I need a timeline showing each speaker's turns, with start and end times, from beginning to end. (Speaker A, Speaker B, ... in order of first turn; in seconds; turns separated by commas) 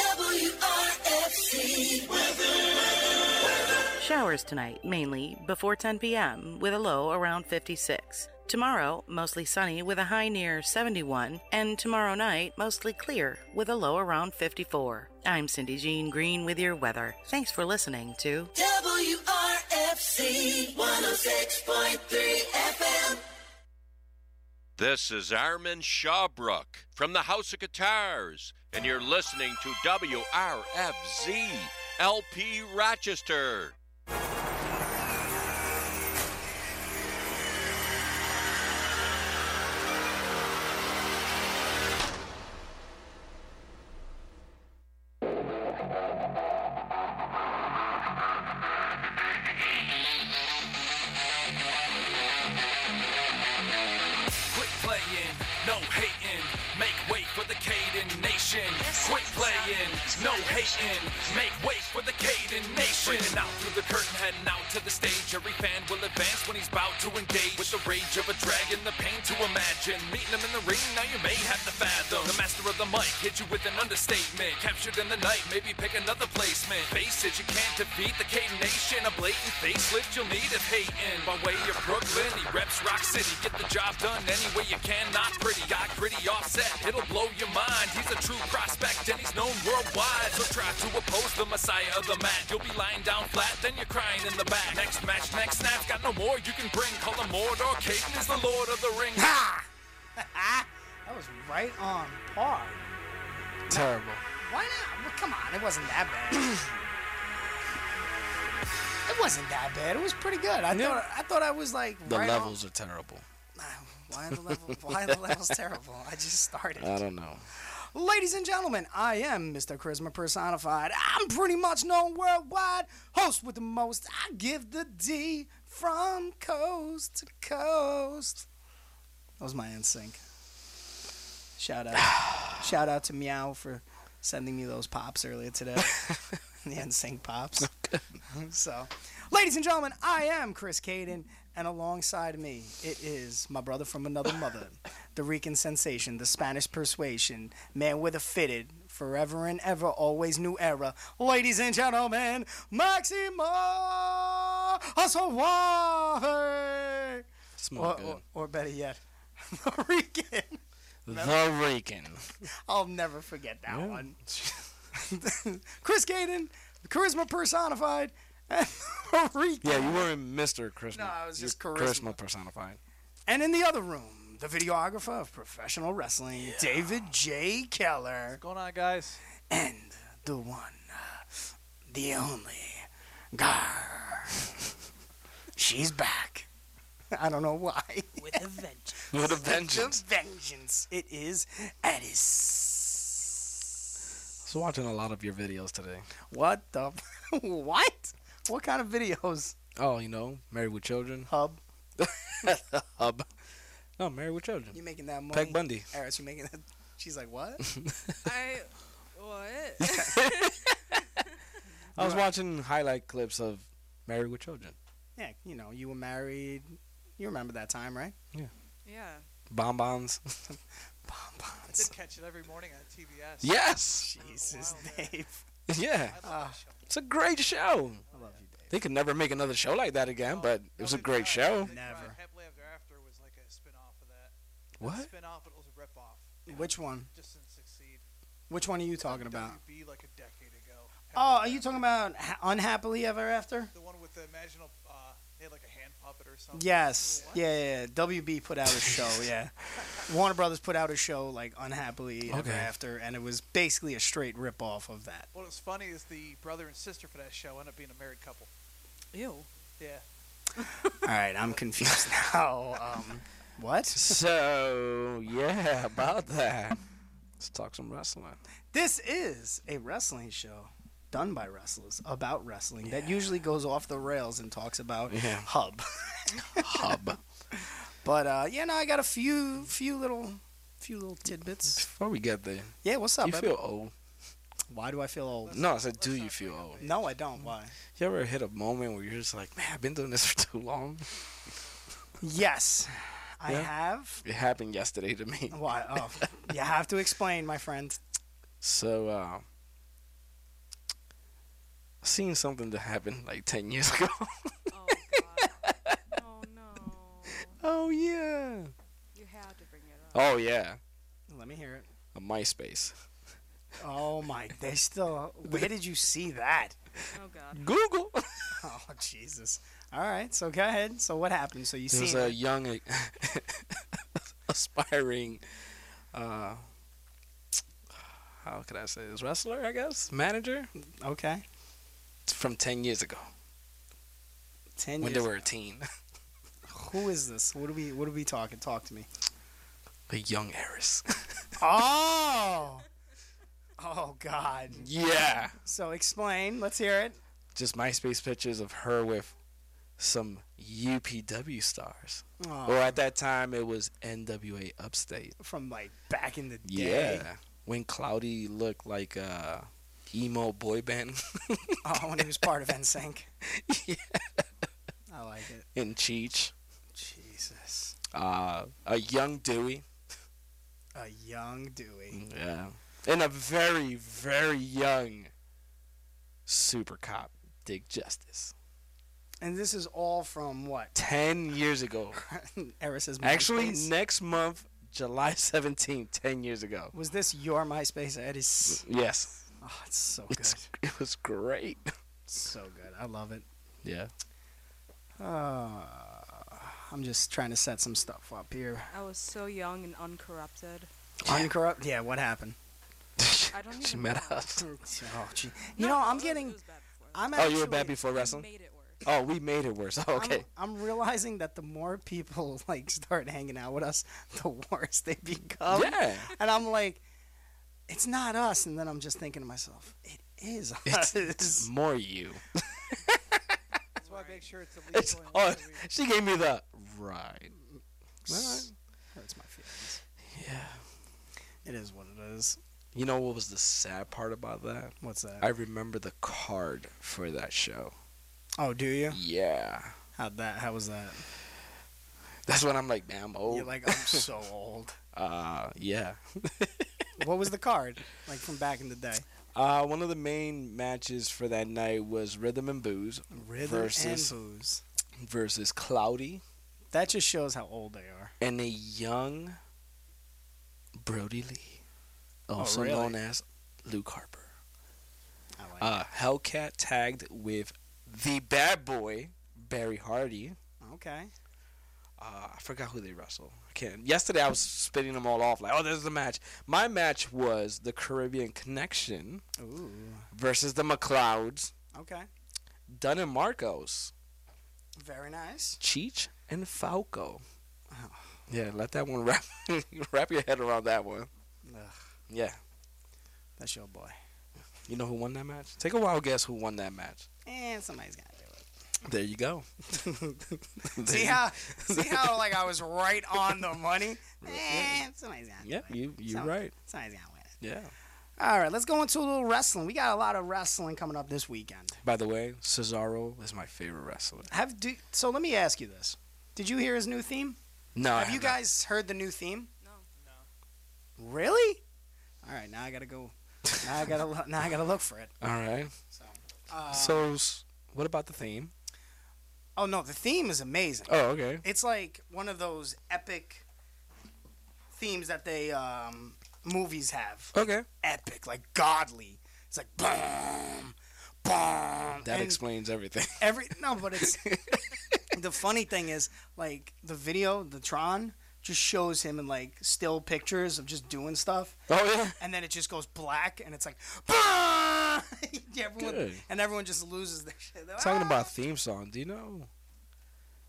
Speaker A: 1.2-1.6, Speaker B: 4.0-18.7, Speaker A: 18.8-20.6, Speaker A: 21.3-23.2, Speaker C: 24.8-33.7, Speaker D: 54.5-99.3, Speaker E: 58.9-59.7, Speaker A: 59.8-60.3, Speaker C: 63.1-63.3, Speaker F: 99.2-102.8, Speaker G: 103.7-104.2, Speaker F: 103.7-106.7, Speaker F: 109.0-112.5, Speaker G: 110.7-111.0, Speaker G: 112.0-113.2, Speaker F: 113.5-117.0, Speaker G: 114.3-115.5, Speaker G: 116.8-117.5, Speaker F: 117.5-128.5, Speaker F: 129.4-130.2, Speaker F: 131.6-137.7, Speaker G: 132.0-132.6, Speaker G: 137.6-138.0, Speaker F: 138.3-157.2, Speaker G: 157.6-158.2, Speaker F: 157.7-161.4, Speaker G: 161.1-162.3, Speaker F: 162.7-164.2, Speaker G: 163.7-164.7, Speaker F: 164.9-170.1, Speaker G: 169.6-172.8, Speaker F: 170.9-172.2, Speaker F: 173.2-178.4, Speaker H: 178.3-179.2, Speaker F: 179.5-184.4, Speaker F: 185.6-186.5, Speaker F: 187.1-193.5, Speaker G: 189.1-190.0, Speaker G: 194.4-196.1, Speaker F: 196.3-199.5, Speaker G: 199.8-201.3, Speaker F: 201.3-201.6, Speaker G: 202.0-203.3, Speaker G: 204.0-204.8, Speaker F: 204.7-207.6, Speaker G: 205.3-205.9, Speaker G: 207.7-208.2, Speaker E: 208.2-210.5, Speaker G: 209.8-210.8, Speaker G: 211.9-214.8, Speaker F: 212.0-212.2, Speaker F: 215.2-218.1, Speaker E: 218.8-219.2, Speaker G: 219.5-220.5, Speaker F: 221.1-221.9, Speaker H: 221.7-225.2, Speaker G: 223.4-224.1, Speaker F: 224.0-225.4, Speaker G: 225.7-226.2, Speaker H: 226.0-227.0, Speaker F: 226.2-226.6, Speaker G: 226.9-228.0, Speaker H: 228.1-228.4, Speaker F: 228.1-228.7, Speaker G: 228.7-231.7, Speaker H: 230.2-238.0, Speaker F: 231.7-232.2, Speaker G: 234.8-235.1, Speaker F: 236.5-237.1, Speaker F: 238.5-239.6, Speaker H: 239.0-241.9, Speaker F: 241.2-243.7, Speaker H: 243.7-247.5, Speaker F: 246.5-255.3, Speaker G: 252.3-252.7, Speaker H: 255.3-258.5, Speaker E: 259.1-259.5, Speaker H: 259.8-260.0, Speaker F: 261.0-264.2, Speaker G: 263.9-266.8, Speaker G: 267.4-268.4, Speaker F: 268.7-277.0, Speaker G: 272.8-273.1, Speaker G: 275.1-275.5, Speaker G: 276.6-277.2, Speaker F: 277.5-281.8, Speaker G: 281.8-283.9, Speaker F: 282.8-283.5, Speaker F: 284.7-285.6, Speaker H: 285.4-287.2, Speaker G: 285.5-286.8, Speaker F: 286.8-287.7, Speaker G: 287.9-291.1, Speaker F: 292.2-294.2, Speaker G: 294.2-296.1, Speaker F: 295.5-298.0, Speaker G: 298.6-299.4, Speaker G: 302.0-306.0, Speaker E: 304.7-305.6, Speaker E: 306.1-307.6, Speaker G: 307.5-308.7, Speaker E: 309.1-310.3, Speaker G: 310.1-310.8, Speaker F: 311.3-311.9, Speaker G: 312.1-313.0, Speaker F: 313.8-316.8, Speaker E: 317.1-317.7, Speaker G: 317.5-318.6, Speaker F: 318.6-322.4, Speaker G: 321.9-325.4, Speaker G: 326.1-326.6, Speaker G: 328.4-330.7, Speaker F: 331.0-331.4, Speaker G: 332.2-333.3, Speaker F: 334.8-335.5, Speaker G: 335.0-335.9, Speaker F: 336.7-339.1, Speaker G: 340.1-341.5, Speaker F: 341.6-342.8, Speaker F: 343.8-344.9, Speaker G: 344.7-345.6, Speaker F: 345.6-347.2, Speaker G: 347.5-349.3, Speaker G: 350.0-355.4, Speaker F: 352.4-353.0, Speaker F: 355.4-357.3, Speaker G: 356.6-362.2, Speaker F: 361.8-363.3, Speaker G: 363.4-364.7, Speaker F: 365.1-365.6, Speaker G: 365.7-366.5, Speaker F: 366.9-367.9, Speaker G: 368.1-369.8, Speaker F: 370.9-372.2, Speaker G: 372.1-375.3, Speaker G: 376.5-378.5, Speaker F: 379.4-380.9, Speaker G: 380.9-382.2, Speaker F: 382.2-383.9, Speaker G: 383.2-386.9, Speaker F: 386.9-388.8, Speaker G: 388.7-389.4, Speaker F: 389.6-390.7, Speaker G: 390.3-391.9, Speaker F: 392.3-393.4, Speaker G: 393.8-394.1, Speaker F: 395.2-398.9, Speaker E: 398.9-400.9, Speaker G: 401.2-401.5, Speaker F: 401.2-402.6, Speaker G: 403.2-404.6, Speaker E: 403.5-404.5, Speaker F: 404.6-406.6, Speaker E: 405.8-409.0, Speaker F: 407.1-408.0, Speaker G: 407.3-408.5, Speaker G: 409.0-410.4, Speaker F: 410.1-417.0, Speaker G: 415.6-416.3, Speaker F: 417.9-421.7, Speaker G: 420.9-423.6, Speaker H: 424.0-425.9, Speaker E: 424.0-424.4, Speaker G: 424.9-427.5, Speaker F: 428.2-430.0, Speaker G: 428.3-428.7, Speaker G: 430.3-430.9, Speaker F: 431.6-432.6, Speaker G: 432.9-437.9, Speaker F: 435.0-435.4, Speaker F: 438.6-439.2, Speaker G: 439.1-439.9, Speaker F: 440.2-441.2, Speaker G: 442.4-444.2, Speaker F: 443.5-445.0, Speaker G: 445.1-447.1, Speaker F: 447.2-449.2, Speaker G: 449.5-454.4, Speaker F: 453.3-454.8, Speaker G: 455.2-456.4, Speaker F: 456.9-458.3, Speaker G: 458.4-459.6, Speaker G: 461.0-461.8, Speaker G: 462.5-464.5, Speaker F: 462.6-463.2, Speaker F: 465.6-465.9, Speaker G: 465.8-470.6, Speaker F: 470.8-471.3, Speaker G: 472.2-479.4, Speaker F: 479.6-480.3, Speaker G: 480.3-481.7, Speaker F: 481.9-482.3, Speaker G: 482.9-484.1, Speaker F: 485.0-485.8, Speaker G: 485.8-487.4, Speaker F: 487.9-488.4, Speaker G: 488.5-491.3, Speaker F: 491.6-492.0, Speaker G: 492.3-492.6, Speaker F: 493.6-494.1, Speaker G: 494.9-497.3, Speaker F: 497.4-498.6, Speaker G: 499.0-499.7, Speaker F: 499.9-507.5, Speaker G: 500.8-502.5, Speaker G: 504.4-505.0, Speaker G: 505.6-506.7, Speaker G: 507.6-507.9, Speaker F: 508.4-512.0, Speaker G: 512.0-514.5, Speaker F: 514.5-517.6, Speaker G: 517.9-518.6, Speaker F: 518.1-519.7, Speaker H: 520.2-520.5, Speaker F: 521.2-521.8, Speaker F: 522.4-525.3, Speaker G: 525.4-525.9, Speaker F: 526.1-527.3, Speaker G: 526.9-528.7, Speaker F: 529.8-533.6, Speaker G: 531.1-531.6, Speaker F: 534.9-542.6, Speaker G: 537.5-537.9, Speaker G: 542.2-545.2, Speaker F: 543.4-544.7, Speaker F: 545.3-551.8, Speaker G: 551.9-552.4, Speaker F: 552.4-558.5, Speaker G: 556.0-556.4, Speaker G: 558.0-559.7